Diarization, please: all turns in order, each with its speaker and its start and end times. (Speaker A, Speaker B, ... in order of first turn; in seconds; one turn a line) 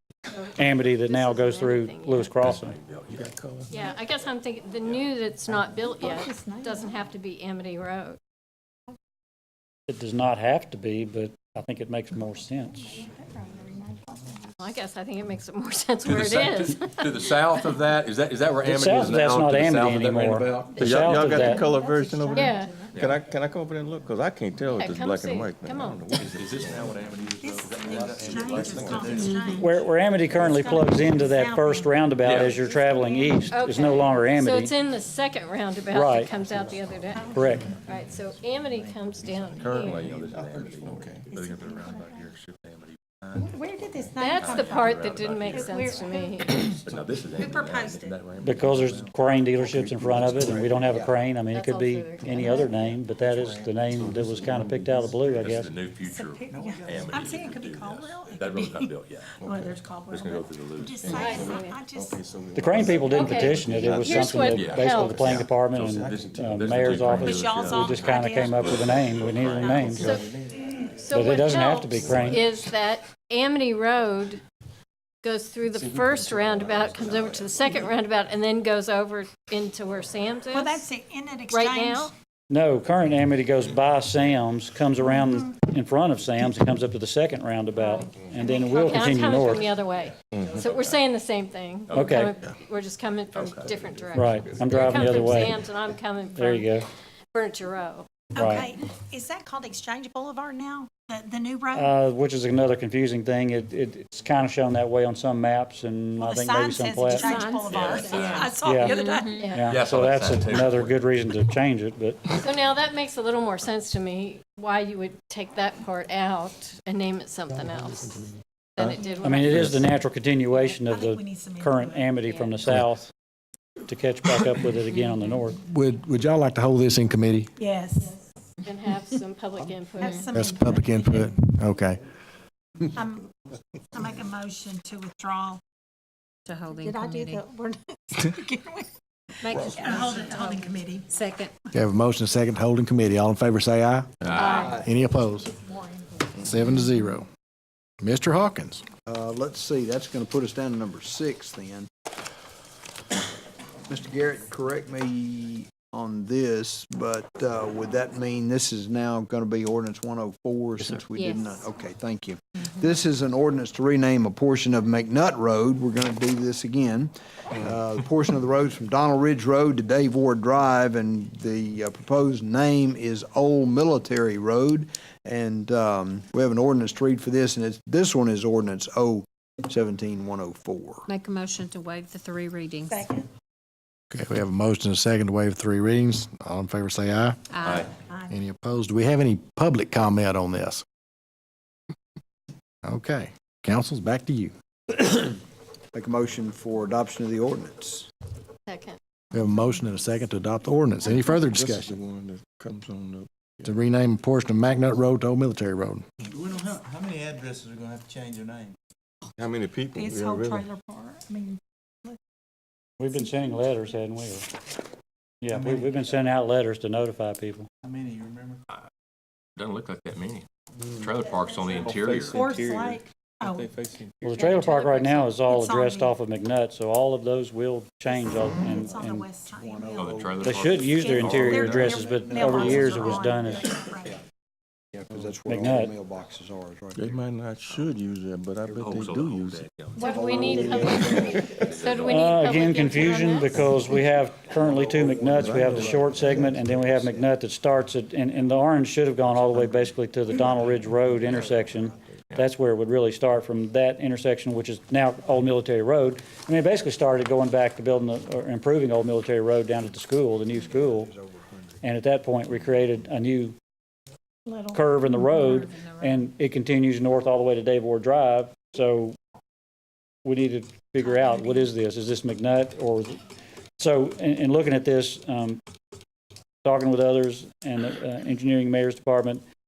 Speaker A: 0.3-2.3
Speaker B: 0.5-2.7
Speaker C: 2.4-3.4
Speaker D: 3.1-3.7
Speaker A: 3.7-8.2
Speaker E: 6.0-7.0
Speaker B: 9.9-13.1
Speaker E: 12.8-14.4
Speaker A: 14.6-17.1
Speaker C: 16.0-21.1
Speaker B: 18.6-21.6
Speaker D: 20.6-26.9
Speaker E: 20.7-23.0
Speaker A: 22.3-22.8
Speaker C: 22.9-23.2
Speaker A: 24.7-26.2
Speaker C: 26.1-29.5
Speaker E: 27.4-33.5
Speaker F: 28.0-29.4
Speaker D: 28.7-29.5
Speaker B: 29.6-34.7
Speaker C: 32.2-32.7
Speaker A: 33.5-40.1
Speaker B: 35.9-36.3
Speaker E: 37.1-37.8
Speaker B: 37.3-37.7
Speaker C: 39.6-43.1
Speaker F: 40.0-41.3
Speaker E: 41.3-42.3
Speaker E: 43.4-44.9
Speaker A: 44.2-46.6
Speaker C: 44.3-46.0
Speaker E: 45.5-46.8
Speaker C: 46.6-49.1
Speaker E: 47.3-48.2
Speaker B: 48.4-55.7
Speaker G: 50.6-51.1
Speaker A: 51.5-52.6
Speaker E: 52.4-52.6
Speaker C: 53.9-59.3
Speaker E: 56.0-62.2
Speaker D: 59.4-59.7
Speaker C: 60.1-61.2
Speaker A: 61.1-61.8
Speaker D: 61.2-65.5
Speaker B: 62.5-70.2
Speaker A: 62.9-65.2
Speaker C: 64.5-70.2
Speaker D: 66.0-66.5
Speaker E: 67.1-70.2
Speaker A: 69.9-74.4
Speaker B: 71.1-72.5
Speaker C: 72.0-72.5
Speaker A: 75.2-80.9
Speaker E: 80.5-82.1
Speaker A: 81.5-82.1
Speaker B: 82.5-89.7
Speaker A: 87.8-96.8
Speaker C: 90.3-91.0
Speaker C: 91.9-92.3
Speaker B: 91.9-92.3
Speaker C: 93.3-94.2
Speaker B: 94.1-95.6
Speaker B: 96.3-96.9
Speaker A: 97.3-98.3
Speaker E: 98.3-101.9
Speaker B: 98.3-98.7
Speaker B: 101.7-107.4
Speaker E: 106.2-109.5
Speaker A: 107.1-109.7
Speaker C: 107.7-108.6
Speaker B: 108.6-109.0
Speaker C: 109.5-111.0
Speaker B: 109.5-112.4
Speaker A: 112.3-119.9
Speaker B: 119.2-123.1
Speaker C: 119.4-119.8
Speaker A: 120.5-120.8
Speaker E: 120.8-122.1
Speaker A: 122.2-122.8
Speaker B: 123.9-125.6
Speaker H: 125.6-127.5
Speaker E: 127.6-128.2
Speaker A: 128.6-130.2
Speaker E: 130.0-131.4
Speaker I: 130.0-130.3
Speaker H: 130.3-132.0
Speaker E: 132.9-133.3
Speaker E: 133.9-135.6
Speaker I: 136.5-137.5
Speaker E: 136.7-138.9
Speaker I: 139.4-141.5
Speaker E: 139.4-141.1
Speaker H: 141.7-144.1
Speaker C: 144.2-144.6
Speaker G: 144.3-144.9
Speaker E: 144.4-144.8
Speaker H: 144.8-145.5
Speaker E: 145.4-146.3
Speaker H: 146.4-147.3
Speaker H: 148.0-148.8
Speaker G: 149.1-151.9
Speaker G: 153.9-181.1
Speaker A: 161.1-161.7
Speaker I: 181.1-183.1
Speaker E: 182.9-183.3
Speaker H: 184.1-187.4
Speaker I: 187.5-187.8
Speaker C: 187.6-187.9
Speaker E: 187.8-188.3
Speaker H: 188.3-190.8
Speaker H: 192.8-194.5
Speaker G: 195.0-195.3
Speaker G: 195.9-198.1
Speaker A: 198.7-199.0
Speaker H: 199.3-202.0
Speaker D: 201.1-203.7
Speaker H: 203.6-206.1
Speaker F: 206.4-208.7
Speaker D: 209.3-210.7
Speaker E: 209.9-212.2
Speaker B: 213.0-214.5
Speaker B: 215.4-217.7
Speaker F: 215.5-215.9
Speaker F: 217.8-218.5
Speaker C: 219.6-222.4
Speaker E: 221.2-223.8
Speaker D: 221.8-224.1
Speaker B: 224.2-229.3
Speaker A: 224.2-225.3
Speaker E: 224.5-226.2
Speaker E: 228.1-234.2
Speaker G: 228.4-234.2
Speaker C: 229.9-232.0
Speaker B: 230.4-233.7
Speaker G: 234.9-237.9
Speaker B: 235.4-235.9
Speaker D: 236.9-239.7
Speaker C: 238.7-242.9
Speaker A: 240.0-243.7
Speaker G: 240.0-241.5
Speaker E: 240.1-240.9
Speaker B: 242.0-261.1
Speaker D: 243.5-243.9
Speaker G: 243.7-244.0
Speaker G: 244.7-247.3
Speaker D: 244.8-246.2
Speaker G: 251.2-251.8
Speaker G: 260.5-261.8
Speaker B: 261.8-263.5
Speaker E: 264.4-265.6
Speaker B: 264.7-269.2
Speaker I: 265.6-266.3
Speaker B: 270.2-273.2
Speaker E: 271.0-271.7
Speaker B: 273.8-275.6
Speaker B: 276.6-279.4